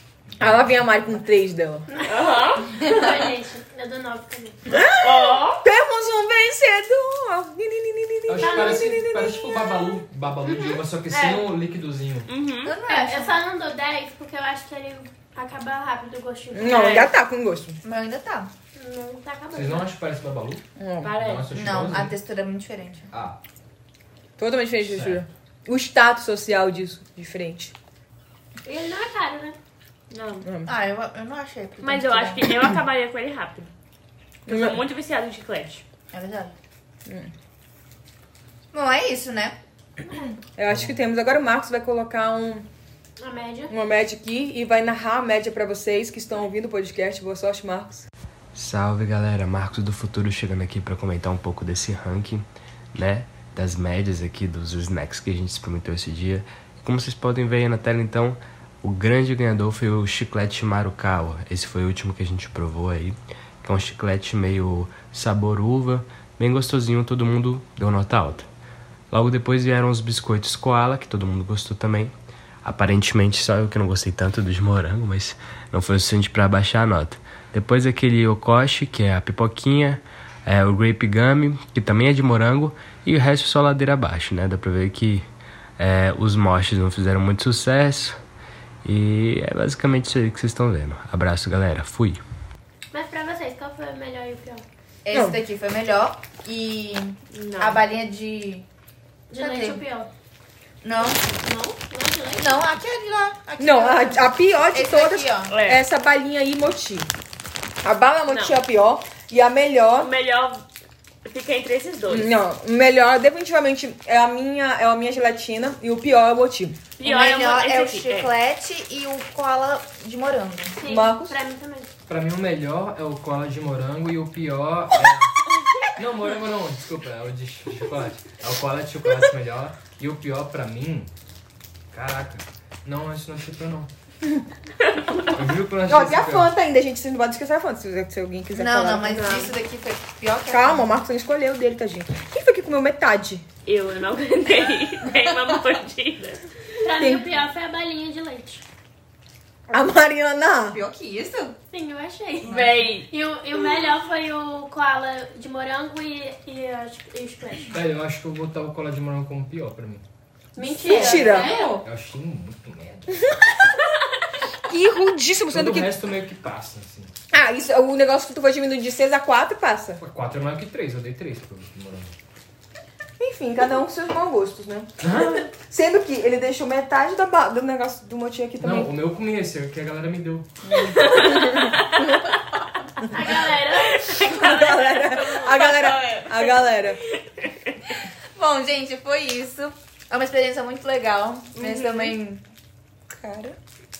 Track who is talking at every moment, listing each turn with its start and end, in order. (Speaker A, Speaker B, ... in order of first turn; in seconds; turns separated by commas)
Speaker A: 0.3-0.8, Speaker B: 0.4-1.9, Speaker C: 1.9-4.6, Speaker D: 2.0-2.9, Speaker B: 4.7-10.0, Speaker D: 5.0-5.6, Speaker A: 8.3-12.3, Speaker C: 8.4-8.8, Speaker C: 10.4-11.5, Speaker D: 12.2-12.8, Speaker E: 12.6-13.4, Speaker C: 12.8-17.1, Speaker B: 16.5-17.8, Speaker D: 16.6-17.1, Speaker E: 17.8-18.5, Speaker C: 18.7-19.9, Speaker A: 19.5-20.6, Speaker B: 20.8-21.1, Speaker D: 21.0-21.5, Speaker A: 21.2-22.2, Speaker E: 21.5-23.1, Speaker A: 23.1-23.4, Speaker B: 24.4-27.7, Speaker A: 24.9-25.2, Speaker C: 28.6-29.6, Speaker D: 30.1-30.5, Speaker B: 30.4-30.7, Speaker E: 30.6-32.5, Speaker D: 31.8-33.7, Speaker D: 34.5-35.8, Speaker B: 34.5-34.8, Speaker E: 36.1-36.5, Speaker B: 37.0-37.3, Speaker E: 38.7-39.6, Speaker B: 40.6-42.7, Speaker A: 40.7-41.0, Speaker C: 43.2-43.7, Speaker B: 43.7-48.1, Speaker F: 48.5-68.5, Speaker F: 69.1-85.3, Speaker F: 85.8-88.2, Speaker F: 88.8-92.2, Speaker C: 92.9-94.6, Speaker E: 95.0-98.6, Speaker B: 95.1-95.4, Speaker D: 97.3-97.8, Speaker C: 99.3-100.1, Speaker E: 99.3-99.8, Speaker E: 100.8-101.2, Speaker C: 101.2-102.7, Speaker E: 102.4-105.5, Speaker B: 103.6-107.1, Speaker D: 105.5-105.8, Speaker B: 107.8-110.1, Speaker D: 108.3-108.6, Speaker D: 110.0-110.6, Speaker D: 111.2-112.3, Speaker B: 112.1-116.8, Speaker D: 117.0-118.3, Speaker E: 117.0-120.8, Speaker C: 120.7-121.9, Speaker B: 120.8-121.4, Speaker A: 122.1-125.4, Speaker A: 126.0-131.1, Speaker A: 131.9-133.9, Speaker D: 134.9-135.3, Speaker A: 135.3-136.5, Speaker B: 135.8-139.2, Speaker E: 138.5-140.9, Speaker D: 139.1-139.6, Speaker B: 140.5-143.4, Speaker D: 143.7-146.5, Speaker C: 146.8-148.6, Speaker B: 146.9-147.2, Speaker B: 149.7-150.8, Speaker E: 150.7-151.6, Speaker C: 151.7-157.7, Speaker D: 152.4-153.1, Speaker A: 157.7-160.0, Speaker C: 160.6-161.8, Speaker E: 160.6-161.8, Speaker B: 160.8-161.6, Speaker A: 161.8-163.3, Speaker B: 164.6-165.9, Speaker A: 165.5-167.1, Speaker B: 167.3-170.0, Speaker A: 170.0-172.1, Speaker B: 173.2-178.9, Speaker A: 175.0-175.5, Speaker A: 178.6-180.5, Speaker B: 180.6-182.4, Speaker D: 180.9-182.0, Speaker C: 183.1-184.3, Speaker D: 183.9-187.7, Speaker B: 184.1-187.0, Speaker E: 188.3-192.4, Speaker D: 191.6-192.2, Speaker E: 193.1-193.6